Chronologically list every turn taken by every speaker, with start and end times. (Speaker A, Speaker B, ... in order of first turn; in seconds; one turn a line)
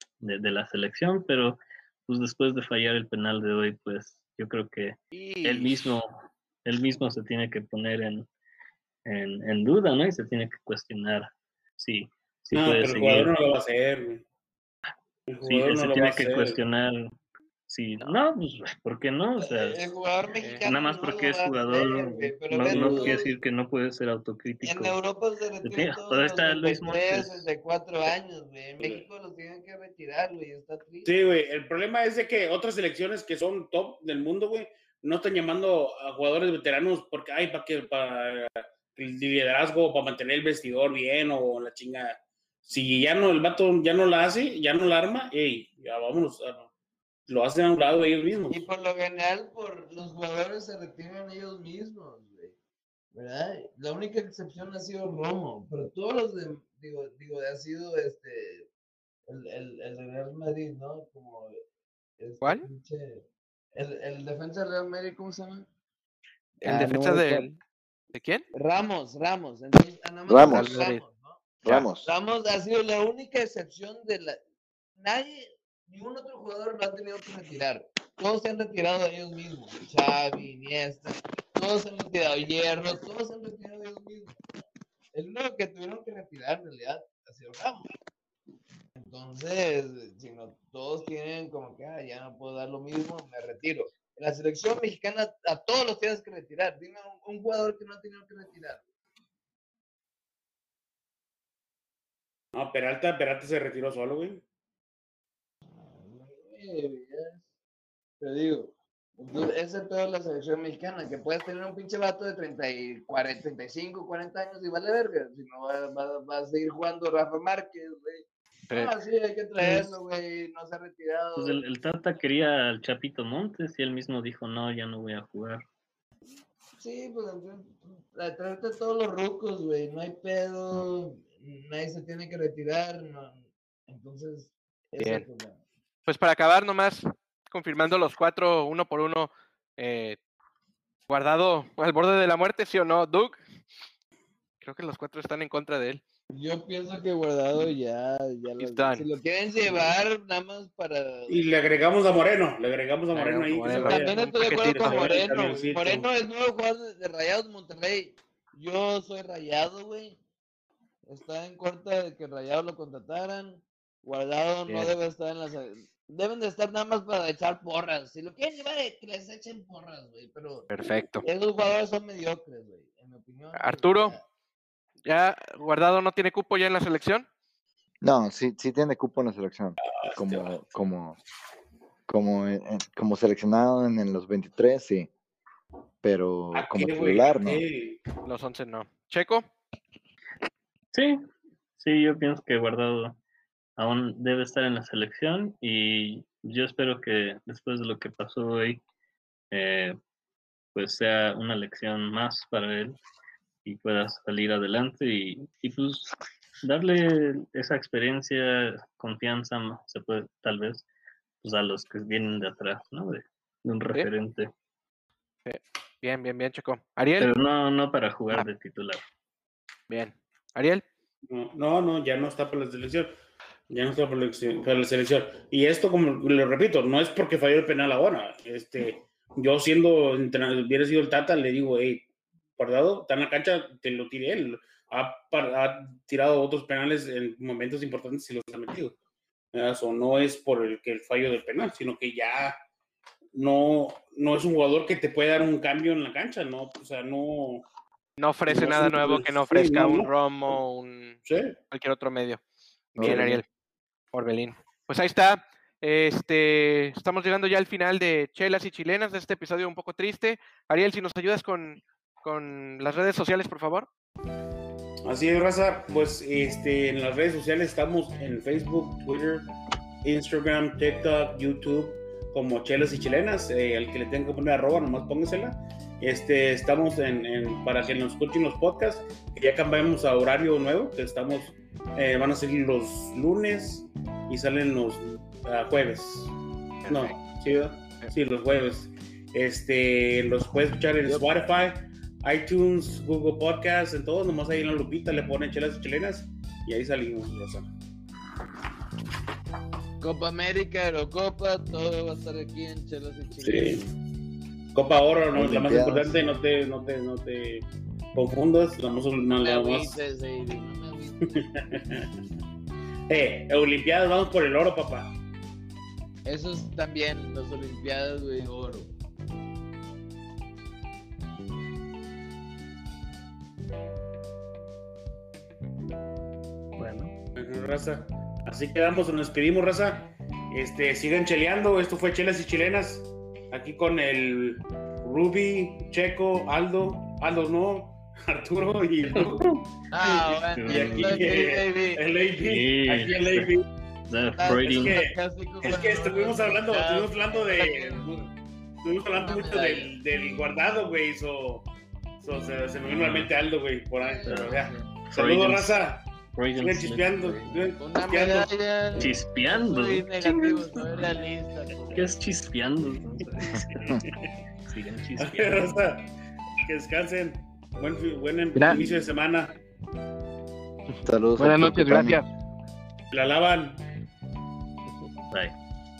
Speaker A: 0.2-6.1
Speaker B: 5.1-6.0
Speaker A: 6.6-8.3
Speaker A: 9.0-13.3
Speaker C: 12.5-14.2
Speaker C: 15.3-16.6
Speaker A: 15.4-17.1
Speaker A: 17.7-19.9
Speaker D: 19.4-23.3
Speaker B: 20.4-20.7
Speaker A: 20.6-25.0
Speaker B: 22.7-23.2
Speaker C: 22.7-23.1
Speaker D: 24.6-31.2
Speaker A: 25.6-27.5
Speaker C: 28.8-29.1
Speaker C: 31.0-46.7
Speaker C: 47.3-48.6
Speaker D: 48.5-52.5
Speaker D: 53.1-58.7
Speaker D: 59.3-61.6
Speaker D: 62.2-65.7
Speaker D: 66.6-67.5
Speaker B: 66.6-67.6
Speaker B: 68.1-68.5
Speaker D: 68.5-71.4
Speaker E: 70.3-70.8
Speaker B: 70.4-71.0
Speaker E: 71.6-72.1
Speaker D: 72.0-74.4
Speaker D: 75.0-84.4
Speaker D: 85.1-87.9
Speaker D: 88.9-98.8
Speaker C: 102.5-104.4
Speaker D: 105.7-107.4
Speaker D: 108.2-121.6
Speaker B: 118.7-118.9
Speaker B: 119.6-119.9
Speaker A: 121.4-125.6
Speaker D: 126.8-135.6
Speaker B: 135.0-135.2
Speaker B: 136.1-140.2
Speaker B: 141.1-143.4
Speaker B: 144.6-146.0
Speaker D: 146.3-151.5
Speaker B: 148.6-149.1
Speaker C: 151.3-156.1
Speaker B: 153.1-155.2
Speaker D: 153.7-160.2
Speaker D: 161.1-170.7
Speaker B: 164.7-164.9
Speaker B: 170.7-171.2
Speaker D: 171.2-174.2
Speaker B: 173.5-174.2
Speaker B: 175.1-177.3
Speaker E: 178.0-181.2
Speaker C: 180.0-180.5
Speaker E: 182.1-185.1
Speaker E: 186.0-187.6
Speaker C: 186.5-188.0
Speaker B: 188.2-189.5
Speaker A: 190.9-191.2
Speaker A: 191.8-193.2
Speaker A: 193.8-198.8
Speaker A: 199.5-200.0
Speaker A: 200.7-203.0
Speaker A: 203.6-210.8
Speaker A: 211.4-214.5
Speaker B: 215.4-217.3
Speaker A: 217.2-219.0
Speaker B: 219.9-220.8
Speaker C: 221.3-223.2
Speaker C: 223.7-238.9
Speaker C: 239.5-242.6
Speaker C: 243.3-247.7
Speaker B: 248.2-251.2
Speaker C: 248.5-250.6
Speaker C: 251.2-251.6
Speaker B: 251.7-252.4
Speaker B: 252.9-253.4
Speaker E: 253.0-253.4
Speaker B: 254.1-263.9
Speaker C: 265.1-269.5
Speaker C: 270.0-286.3
Speaker B: 286.8-287.2
Speaker C: 286.9-297.7
Speaker D: 300.0-303.8
Speaker C: 303.3-303.9
Speaker C: 304.7-309.9
Speaker E: 305.3-306.2
Speaker D: 309.4-311.5
Speaker C: 311.3-312.1
Speaker C: 313.1-315.1
Speaker D: 316.2-318.9
Speaker A: 326.8-327.1
Speaker C: 327.4-339.4
Speaker A: 339.1-339.6
Speaker D: 339.9-342.0
Speaker A: 340.4-341.5
Speaker C: 340.7-343.7
Speaker A: 342.4-343.5
Speaker A: 344.1-345.0
Speaker D: 344.4-348.3
Speaker C: 344.5-348.3
Speaker C: 348.8-351.7
Speaker D: 349.1-349.9
Speaker C: 352.2-359.0
Speaker A: 352.9-353.3
Speaker D: 354.0-354.9
Speaker A: 354.2-355.7
Speaker A: 356.3-357.4
Speaker D: 357.8-362.1
Speaker A: 358.9-361.1
Speaker A: 361.9-364.0
Speaker C: 363.7-364.1
Speaker A: 364.6-365.7
Speaker C: 365.2-366.1
Speaker C: 366.6-369.5
Speaker D: 368.5-368.8
Speaker E: 371.0-372.2
Speaker D: 371.4-372.3
Speaker C: 373.1-373.8